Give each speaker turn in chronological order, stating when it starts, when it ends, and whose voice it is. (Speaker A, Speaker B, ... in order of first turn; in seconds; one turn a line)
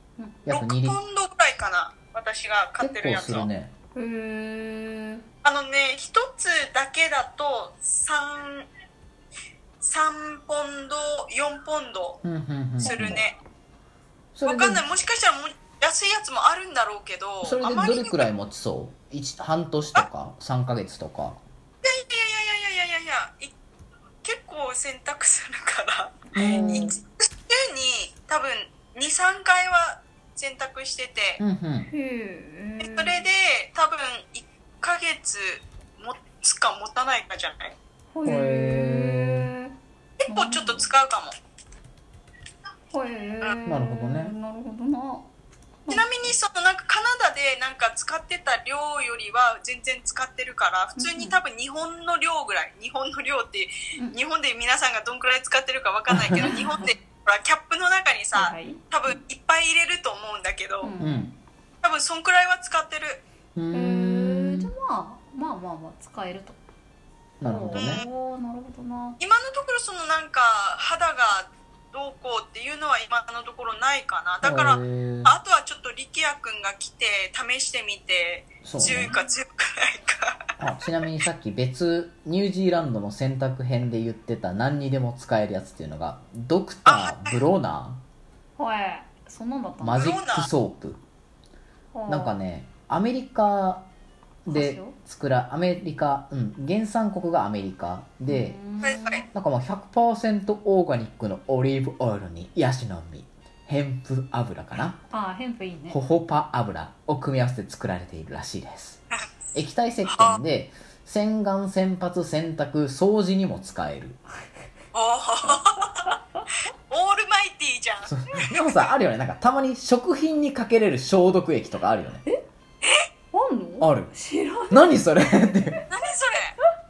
Speaker A: 0.2-0.4
Speaker B: 0.4-1.0
Speaker C: 0.5-3.5
Speaker B: 2.8-3.7
Speaker A: 4.0-5.2
Speaker C: 5.4-8.7
Speaker C: 9.8-12.2
Speaker B: 12.2-13.2
Speaker A: 12.8-13.2
Speaker C: 12.8-13.4
Speaker B: 14.3-14.8
Speaker C: 14.4-18.3
Speaker B: 17.4-21.4
Speaker C: 21.8-23.5
Speaker C: 24.2-31.4
Speaker A: 26.4-27.0
Speaker B: 26.4-26.9
Speaker B: 31.4-31.9
Speaker A: 31.9-33.2
Speaker C: 32.8-37.8
Speaker A: 38.1-39.7
Speaker B: 38.2-39.5
Speaker C: 40.2-41.3
Speaker A: 40.3-40.9
Speaker A: 42.9-45.3
Speaker B: 43.7-44.4
Speaker A: 45.8-46.4
Speaker C: 45.9-60.9
Speaker A: 51.0-51.4
Speaker B: 56.1-56.4
Speaker A: 56.3-56.9
Speaker A: 58.3-58.8
Speaker A: 60.8-61.4
Speaker B: 61.0-61.3
Speaker C: 61.8-63.2
Speaker B: 63.5-64.7
Speaker A: 63.7-66.6
Speaker B: 67.4-68.0
Speaker A: 67.4-69.2
Speaker C: 67.7-68.1
Speaker C: 69.2-80.5
Speaker B: 74.4-75.3
Speaker B: 78.6-79.2
Speaker B: 80.6-88.0
Speaker C: 86.8-87.4
Speaker A: 88.6-90.1
Speaker B: 89.8-91.0
Speaker C: 90.0-90.5
Speaker A: 91.9-92.4
Speaker B: 92.1-93.9
Speaker A: 94.5-95.0
Speaker B: 94.5-98.6
Speaker A: 98.3-99.3
Speaker C: 98.8-99.2
Speaker B: 99.1-105.0
Speaker A: 105.1-106.0
Speaker B: 105.9-109.0
Speaker B: 109.5-114.2
Speaker C: 110.1-110.4
Speaker C: 114.9-116.1
Speaker C: 116.9-118.7
Speaker B: 118.0-122.2
Speaker C: 122.8-123.1
Speaker A: 123.3-125.0
Speaker B: 123.8-124.1
Speaker B: 124.7-125.8
Speaker C: 125.9-126.6